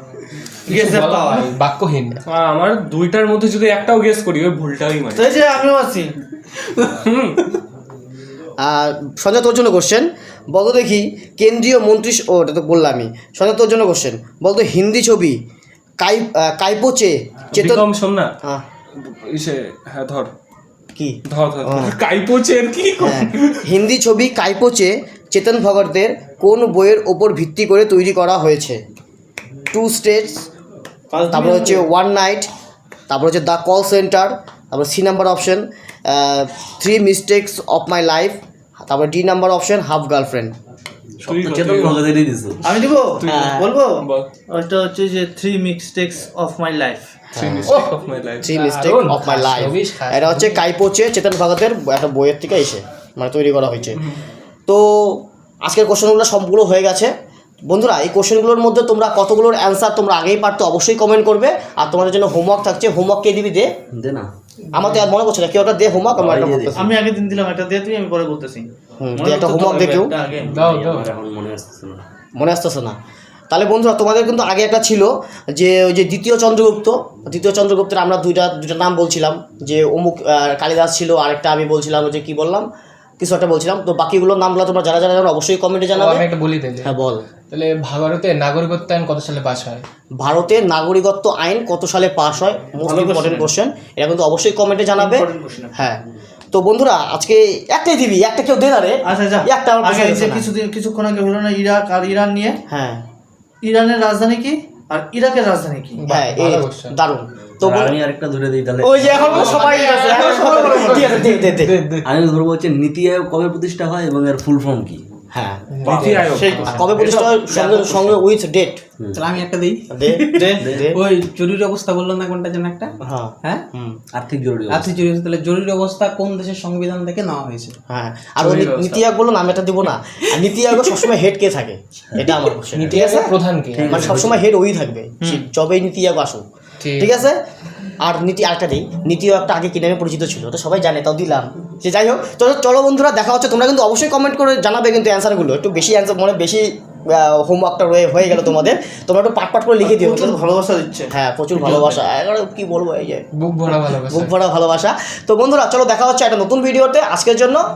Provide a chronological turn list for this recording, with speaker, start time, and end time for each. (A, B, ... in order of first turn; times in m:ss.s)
0:00.6-0:02.2 A
0:00.7-0:01.5 B
0:02.2-0:05.4 C
0:05.1-0:06.1 B
0:06.8-0:07.5 C
0:08.6-0:15.4 D
0:16.0-0:17.9 D
0:17.5-0:18.3 C
0:19.0-0:20.3 C
0:21.0-0:22.0 D
0:21.2-0:23.6 C
0:23.0-0:28.8 D
0:29.7-0:30.5 D
0:31.1-0:31.8 B
0:31.3-0:32.5 D
0:33.1-0:40.5 D
0:41.2-0:42.7 E
0:41.2-0:42.0 C
0:42.6-0:47.1 B
0:43.2-0:44.3 C
0:43.2-0:43.7 D
0:47.3-0:47.8 D
0:47.3-0:48.5 C
0:47.7-0:48.0 A
0:48.4-0:54.0 D
0:48.5-0:50.6 A
0:54.7-0:57.1 D
0:57.7-1:03.7 D
1:03.9-1:04.3 E
1:04.7-1:06.9 D
1:06.2-1:06.9 E
1:06.8-1:10.6 B
1:09.0-1:10.1 D
1:10.4-1:12.0 E
1:10.5-1:11.1 A
1:12.4-1:13.0 D
1:13.5-1:22.7 D
1:23.2-1:26.2 D
1:25.9-1:26.9 A
1:26.8-1:27.2 D
1:27.5-1:29.8 A
1:30.2-1:36.0 D
1:32.8-1:33.5 B
1:35.0-1:35.7 B
1:36.5-1:40.5 D
1:39.0-1:42.6 B
1:42.7-1:43.0 D
1:43.6-1:46.0 B
1:46.0-1:47.0 A
1:46.1-1:48.0 D
1:47.6-1:49.8 E
1:48.8-1:51.8 D
1:49.0-1:51.1 A
1:49.8-1:51.5 B
1:51.5-1:52.0 F
1:52.0-1:55.0 E
1:55.3-1:55.6 D
1:55.7-1:56.4 A
1:55.8-1:56.6 C
1:55.9-1:58.2 B
1:56.6-1:58.8 D
1:59.1-2:02.9 F
1:59.9-2:01.0 D
2:00.3-2:00.7 B
2:00.6-2:01.0 E
2:03.0-2:04.0 D
2:04.1-2:04.9 E
2:04.7-2:07.8 F
2:07.9-2:13.3 D
2:08.4-2:09.0 C
2:12.7-2:14.2 A
2:13.7-2:14.4 E
2:13.9-2:16.4 D
2:16.8-2:17.2 A
2:17.0-2:17.4 D
2:18.0-2:30.4 D
2:29.8-2:31.1 B
2:31.1-2:33.2 D
2:31.6-2:31.9 A
2:33.4-2:34.3 A
2:34.1-2:37.6 D